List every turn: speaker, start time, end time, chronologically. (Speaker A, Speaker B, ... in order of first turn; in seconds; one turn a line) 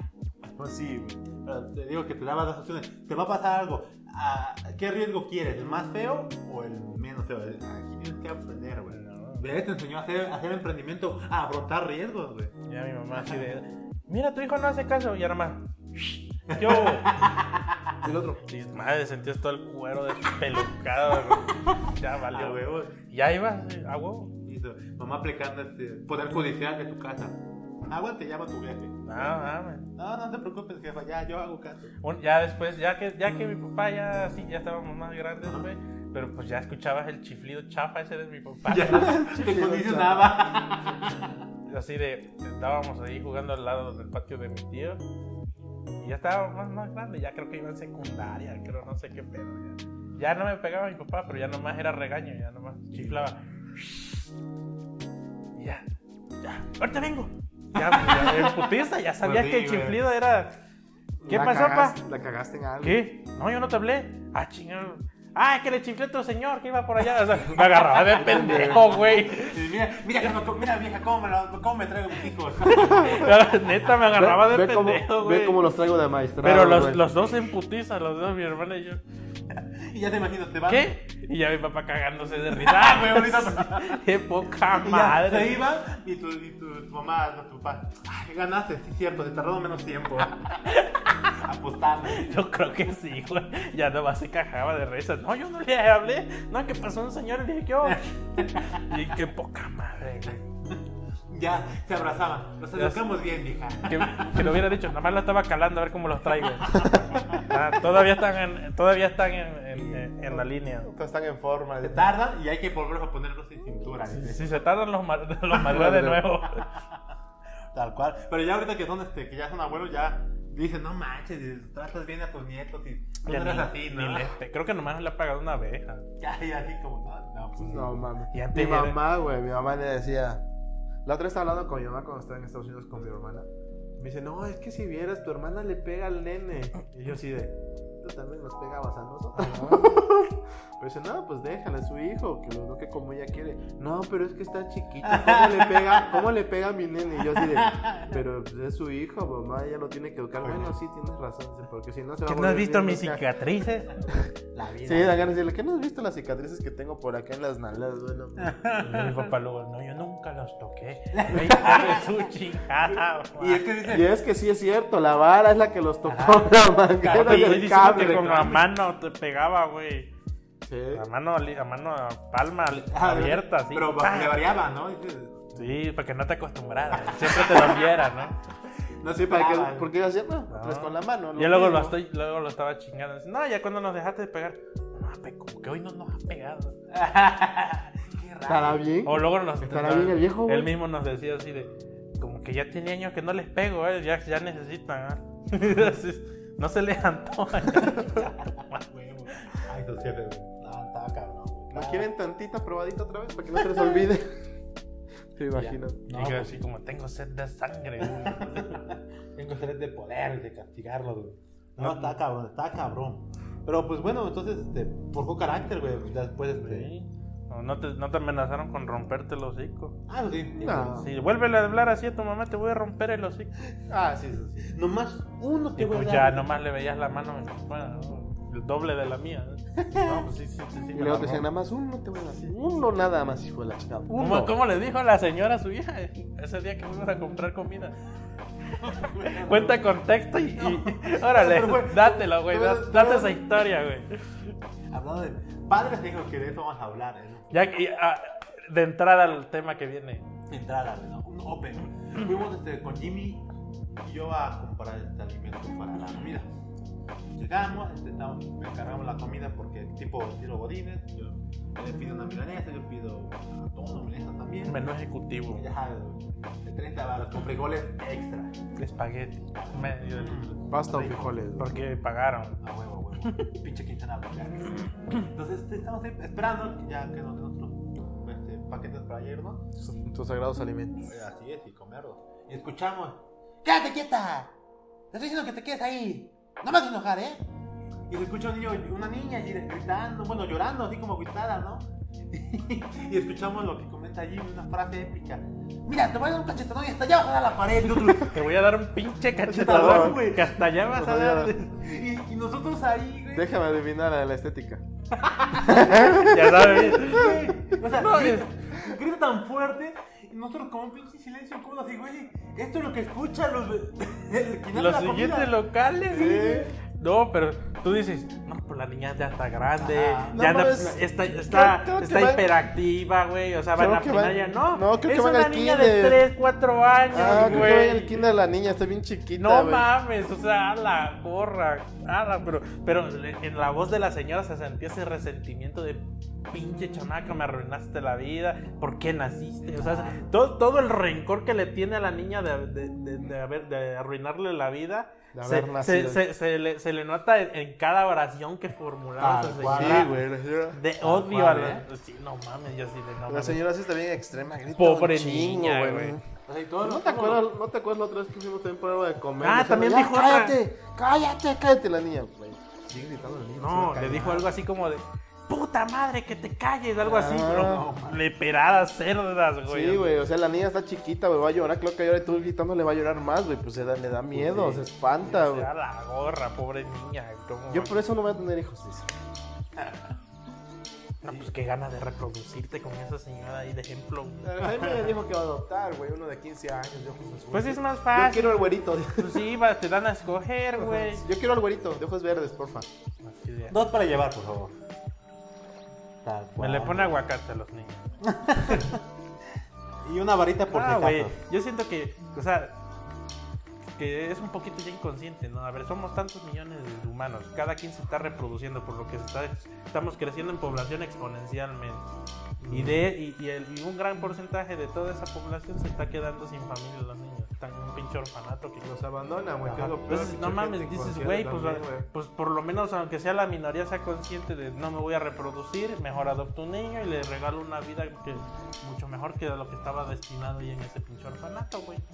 Speaker A: 0.5-1.2
Speaker B: 1.3-12.6
Speaker C: 8.9-9.4
Speaker C: 12.7-17.1
Speaker B: 13.1-13.4
Speaker B: 16.5-17.8
Speaker A: 18.0-18.5
Speaker C: 18.5-24.3
Speaker B: 22.3-23.0
Speaker B: 24.4-31.9
Speaker C: 29.1-29.9
Speaker C: 32.0-39.2
Speaker B: 35.4-35.7
Speaker B: 38.6-41.3
Speaker A: 38.9-40.3
Speaker C: 41.7-45.0
Speaker C: 46.0-54.3
Speaker C: 55.5-55.8
Speaker C: 56.4-60.5
Speaker B: 57.7-58.7
Speaker B: 59.2-60.0
Speaker A: 61.2-63.0
Speaker C: 61.3-62.0
Speaker C: 62.8-69.7
Speaker A: 68.1-68.9
Speaker B: 69.2-73.3
Speaker C: 72.6-75.6
Speaker A: 72.7-73.3
Speaker A: 74.1-77.0
Speaker C: 76.4-79.0
Speaker B: 79.8-80.9
Speaker C: 80.7-85.7
Speaker B: 82.5-84.0
Speaker B: 84.7-90.7
Speaker C: 90.6-91.3
Speaker B: 91.3-92.4
Speaker C: 92.1-100.4
Speaker B: 97.8-98.9
Speaker B: 100.2-104.6
Speaker C: 102.7-103.0
Speaker C: 103.8-110.9
Speaker B: 106.8-107.5
Speaker A: 110.2-112.1
Speaker B: 111.8-114.6
Speaker C: 114.0-116.7
Speaker B: 115.5-117.0
Speaker A: 115.7-116.2
Speaker B: 117.7-124.3
Speaker C: 123.2-126.0
Speaker B: 126.2-128.0
Speaker A: 127.6-130.4
Speaker C: 128.3-129.0
Speaker A: 131.0-133.5
Speaker A: 134.0-153.2
Speaker B: 145.1-146.2
Speaker B: 147.2-148.2
Speaker B: 150.4-150.7
Speaker C: 152.2-154.0
Speaker B: 154.5-155.3
Speaker A: 154.8-158.5
Speaker B: 158.4-159.3
Speaker C: 158.8-163.7
Speaker B: 161.1-162.3
Speaker B: 163.4-164.1
Speaker A: 163.9-168.6
Speaker B: 166.1-168.4
Speaker C: 167.0-170.1
Speaker A: 170.6-171.0
Speaker C: 170.9-174.4
Speaker B: 172.9-175.6
Speaker C: 175.5-178.3
Speaker B: 176.9-178.3
Speaker B: 178.9-179.9
Speaker A: 179.2-182.0
Speaker C: 180.5-186.8
Speaker B: 186.9-188.9
Speaker A: 188.4-190.7
Speaker C: 189.0-199.5
Speaker B: 198.0-202.1
Speaker A: 201.7-204.3
Speaker A: 205.3-206.0
Speaker B: 205.6-206.6
Speaker C: 206.1-208.8
Speaker B: 208.0-216.9
Speaker C: 211.8-212.2
Speaker C: 216.5-220.0
Speaker B: 220.1-220.9
Speaker A: 220.6-221.1
Speaker C: 220.9-223.5
Speaker A: 223.9-224.7
Speaker B: 224.7-226.5
Speaker C: 225.8-231.5
Speaker B: 229.8-230.3
Speaker A: 230.9-234.6
Speaker C: 234.1-237.9
Speaker B: 238.7-239.9
Speaker C: 239.3-244.5
Speaker B: 240.5-243.4
Speaker B: 244.9-247.6
Speaker C: 247.5-250.2
Speaker B: 250.5-253.4
Speaker B: 254.0-256.5
Speaker B: 257.4-264.8
Speaker C: 264.7-265.7
Speaker B: 265.5-268.6
Speaker C: 268.8-270.5
Speaker B: 269.5-271.5
Speaker A: 270.7-271.8
Speaker C: 271.6-272.6
Speaker B: 272.6-279.6
Speaker A: 279.8-281.1
Speaker B: 281.1-284.5
Speaker B: 285.1-287.4
Speaker B: 288.1-298.4
Speaker C: 298.2-301.8
Speaker A: 299.5-300.2
Speaker B: 299.5-300.8
Speaker A: 300.9-301.5
Speaker B: 301.8-303.5
Speaker A: 303.3-304.8
Speaker B: 305.1-315.5
Speaker A: 305.6-307.3
Speaker C: 305.8-308.5
Speaker C: 314.7-328.2
Speaker A: 316.1-316.8
Speaker B: 319.8-320.5
Speaker A: 320.3-322.5
Speaker A: 323.8-326.2
Speaker A: 327.1-329.9
Speaker B: 327.2-327.8
Speaker C: 329.4-350.1
Speaker B: 339.7-340.2
Speaker A: 345.3-346.2
Speaker B: 349.2-350.2
Speaker A: 349.7-350.8
Speaker C: 350.7-353.6
Speaker B: 351.0-351.8
Speaker A: 353.3-356.2
Speaker C: 354.8-356.2
Speaker B: 356.4-357.4
Speaker A: 356.8-364.4
Speaker C: 359.4-360.6
Speaker C: 363.6-370.2
Speaker A: 367.0-367.9
Speaker B: 367.1-368.2
Speaker A: 369.6-375.7
Speaker C: 374.3-378.0
Speaker A: 377.7-379.1
Speaker C: 381.2-384.5
Speaker A: 384.4-389.4
Speaker C: 387.5-391.2
Speaker A: 390.7-392.9
Speaker C: 393.2-393.8
Speaker B: 393.7-394.7
Speaker B: 396.2-397.1
Speaker C: 396.6-398.1
Speaker B: 398.2-399.0
Speaker B: 400.0-401.4
Speaker C: 400.7-402.8
Speaker C: 403.9-412.1
Speaker A: 412.6-413.0
Speaker C: 412.7-418.9
Speaker A: 418.8-422.1
Speaker C: 419.7-432.0